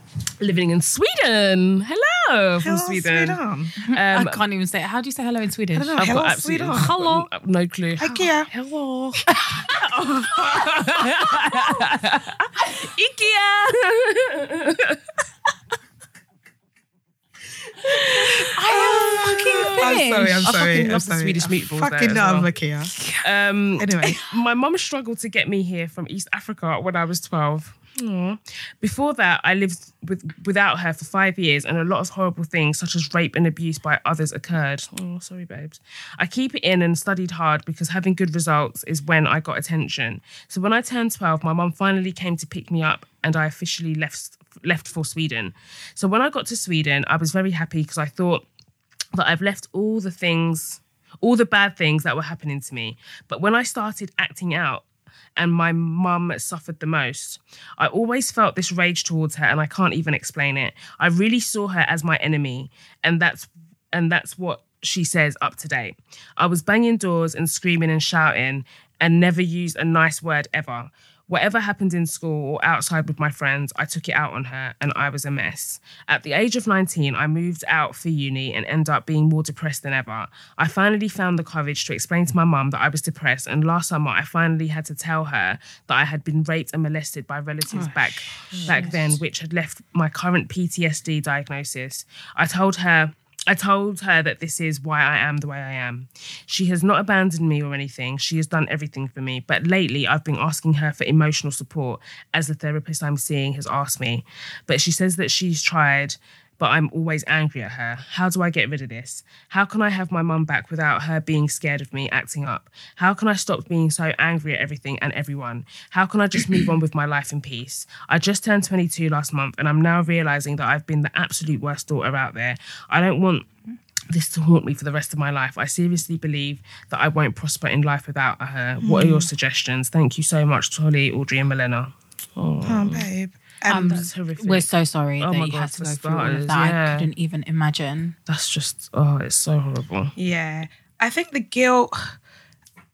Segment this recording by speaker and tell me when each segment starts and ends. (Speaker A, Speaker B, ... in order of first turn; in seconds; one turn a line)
Speaker A: 0.4-4.4
Speaker B: 2.6-3.6
Speaker C: 3.8-6.0
Speaker B: 5.7-7.0
Speaker A: 6.0-15.0
Speaker C: 6.8-7.3
Speaker B: 8.0-8.5
Speaker C: 9.3-9.7
Speaker C: 11.2-11.8
Speaker C: 12.6-13.4
Speaker B: 17.9-22.9
Speaker C: 17.9-20.5
Speaker A: 19.5-19.9
Speaker A: 20.4-22.5
Speaker A: 23.2-48.4
Speaker B: 23.8-24.2
Speaker A: 49.1-123.5
Speaker B: 88.5-89.1
Speaker C: 88.5-88.9
Speaker A: 124.1-133.1
Speaker B: 128.8-129.3
Speaker B: 132.6-134.1
Speaker C: 133.7-138.1
Speaker A: 133.7-137.1
Speaker A: 138.3-140.1
Speaker B: 140.2-142.2